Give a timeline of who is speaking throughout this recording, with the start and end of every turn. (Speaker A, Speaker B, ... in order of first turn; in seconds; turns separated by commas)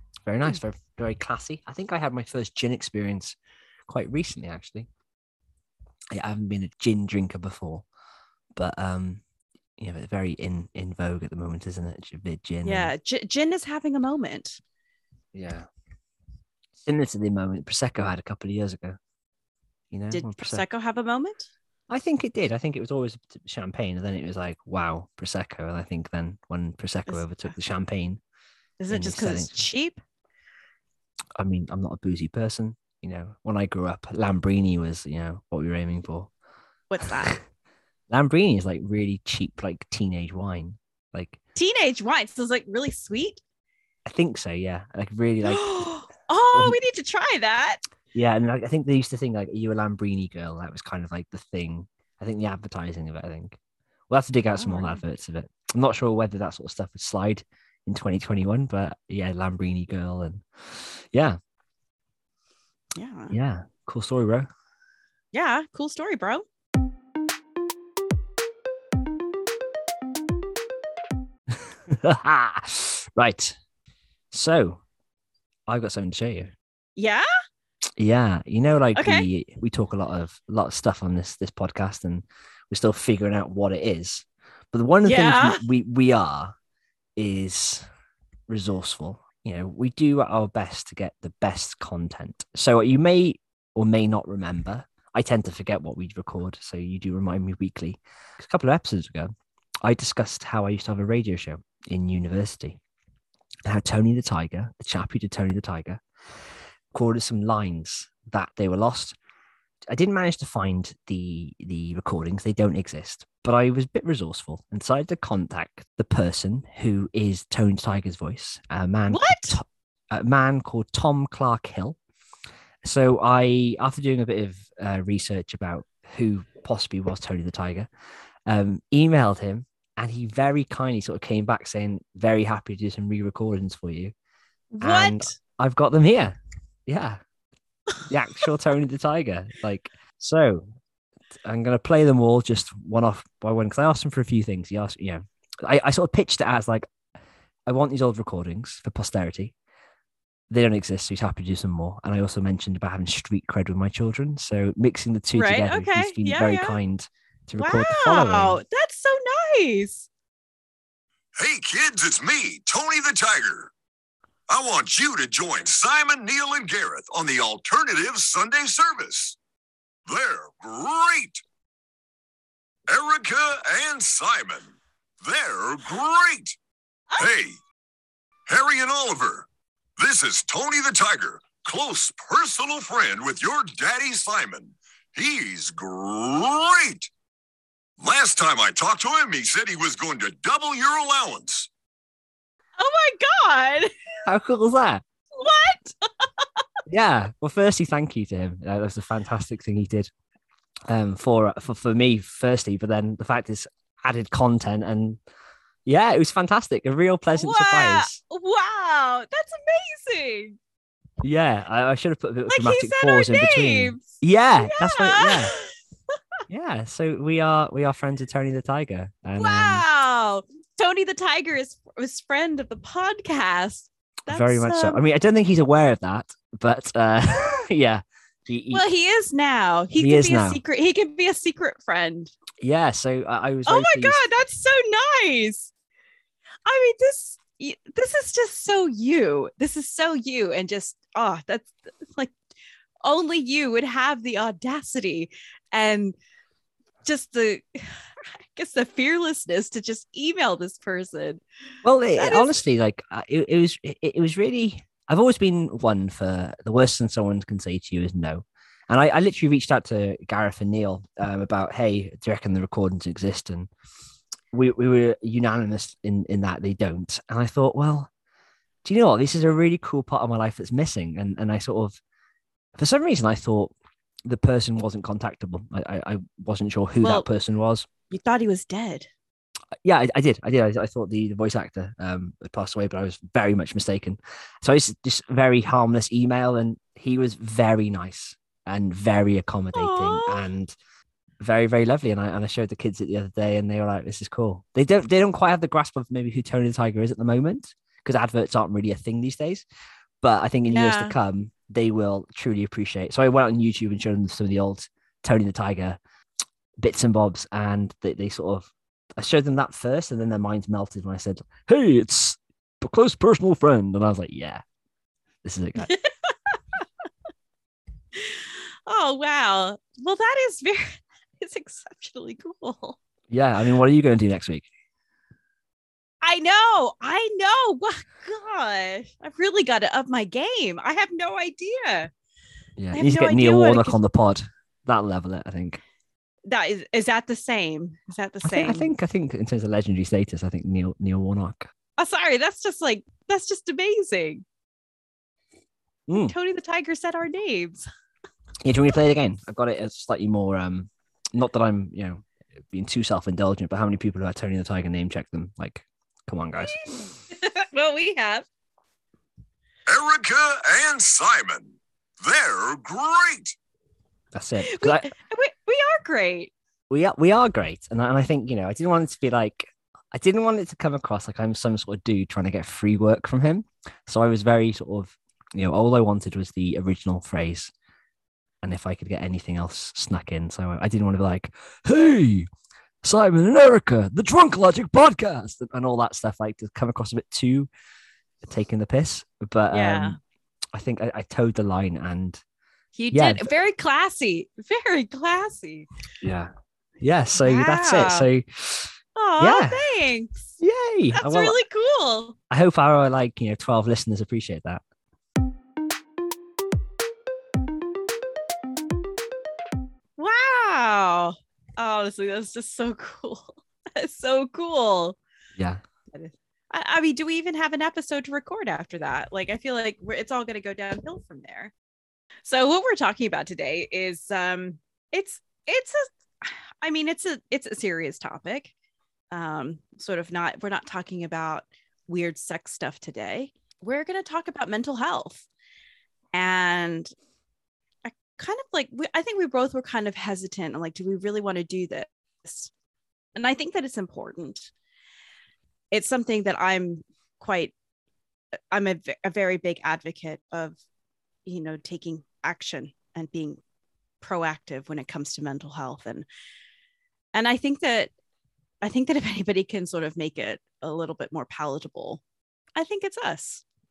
Speaker A: 0.2-4.9, Speaker A: 6.1-7.8, Speaker A: 8.5-9.2, Speaker A: 9.8-12.9, Speaker B: 12.6-14.6, Speaker A: 15.3-15.7, Speaker A: 16.8-19.0, Speaker A: 19.9-20.6, Speaker B: 20.1-21.5, Speaker A: 21.9-28.2, Speaker B: 27.1-27.5, Speaker B: 28.8-30.0, Speaker A: 28.9-29.6, Speaker A: 31.4-36.3, Speaker B: 36.9-37.4, Speaker A: 38.1-41.4, Speaker B: 41.5-43.4, Speaker A: 44.0-45.8, Speaker B: 45.4-47.8, Speaker A: 48.1-53.6, Speaker A: 54.1-61.4, Speaker B: 54.6-55.0, Speaker B: 63.0-63.4, Speaker A: 63.3-64.5, Speaker B: 65.3-66.4, Speaker A: 71.5-73.5, Speaker A: 74.3-74.8, Speaker A: 75.7-76.5, Speaker B: 77.0-77.2, Speaker A: 78.0-86.5, Speaker B: 78.9-79.2, Speaker B: 85.0-85.6, Speaker A: 87.2-87.8, Speaker A: 88.5-102.8, Speaker A: 103.7-106.0, Speaker A: 106.9-109.2, Speaker A: 109.9-122.0, Speaker B: 119.1-119.6, Speaker A: 122.8-127.9, Speaker A: 128.4-134.1, Speaker B: 134.7-135.3, Speaker A: 134.8-136.3, Speaker A: 136.9-137.2, Speaker A: 138.1-140.7, Speaker A: 141.4-146.9, Speaker A: 147.7-149.5, Speaker A: 150.5-158.6, Speaker B: 155.3-156.8, Speaker B: 157.6-160.1, Speaker C: 161.4-163.7, Speaker C: 164.5-169.3, Speaker C: 170.1-171.4, Speaker C: 172.9-176.5, Speaker C: 177.2-177.6, Speaker C: 178.5-179.5, Speaker C: 180.0-187.1, Speaker C: 188.0-191.7, Speaker B: 192.8-193.9, Speaker A: 194.2-195.0, Speaker B: 195.3-196.4, Speaker A: 196.9-200.1, Speaker A: 200.9-205.2, Speaker A: 205.8-208.2, Speaker B: 207.3-210.6, Speaker A: 211.2-215.5, Speaker B: 212.5-215.7, Speaker A: 216.5-219.8, Speaker B: 219.3-225.0, Speaker A: 224.3-228.8, Speaker B: 228.7-232.3, Speaker A: 230.0-230.6, Speaker A: 232.6-234.2, Speaker B: 233.7-235.7, Speaker B: 236.7-242.3, Speaker B: 243.0-246.2, Speaker B: 247.0-248.0, Speaker B: 248.5-251.4, Speaker A: 251.8-263.7, Speaker B: 252.1-252.5, Speaker A: 264.5-268.1, Speaker A: 268.8-272.0, Speaker A: 272.8-273.7, Speaker A: 274.2-277.9, Speaker B: 277.0-277.3, Speaker B: 278.1-279.1, Speaker A: 279.8-290.7, Speaker B: 289.7-290.4, Speaker A: 291.4-299.6, Speaker A: 300.2-306.0, Speaker B: 300.7-301.1, Speaker A: 306.8-314.6, Speaker A: 315.4-315.9, Speaker B: 315.8-316.6, Speaker B: 318.1-323.0, Speaker A: 323.3-324.7, Speaker B: 326.2-332.1, Speaker A: 332.8-335.8, Speaker B: 332.9-334.0, Speaker B: 336.5-338.9, Speaker A: 338.4-341.7, Speaker B: 342.0-344.4, Speaker A: 346.1-346.3, Speaker B: 346.2-347.8, Speaker A: 348.6-356.8, Speaker B: 356.6-358.4, Speaker C: 359.9-363.5, Speaker A: 364.3-365.1, Speaker B: 364.6-366.5, Speaker A: 366.9-377.7, Speaker A: 378.6-382.5, Speaker A: 383.0-387.7, Speaker A: 388.4-390.1, Speaker B: 389.7-390.2, Speaker A: 390.7-392.4, Speaker B: 392.9-395.9, Speaker A: 393.1-393.5, Speaker A: 396.2-399.8, Speaker B: 397.4-398.3, Speaker B: 399.1-400.5, Speaker A: 400.6-401.5, Speaker B: 401.1-402.4, Speaker A: 402.5-404.8, Speaker B: 410.2-415.2, Speaker A: 415.6-415.8, Speaker B: 416.1-421.7, Speaker B: 422.4-428.7, Speaker B: 429.3-435.4, Speaker B: 436.3-437.1, Speaker B: 438.1-442.7, Speaker B: 443.4-444.7, Speaker B: 445.9-447.7, Speaker B: 448.7-450.8, Speaker B: 451.4-453.6, Speaker B: 454.2-456.2, Speaker B: 457.3-458.1, Speaker B: 458.8-462.2, Speaker B: 462.8-463.6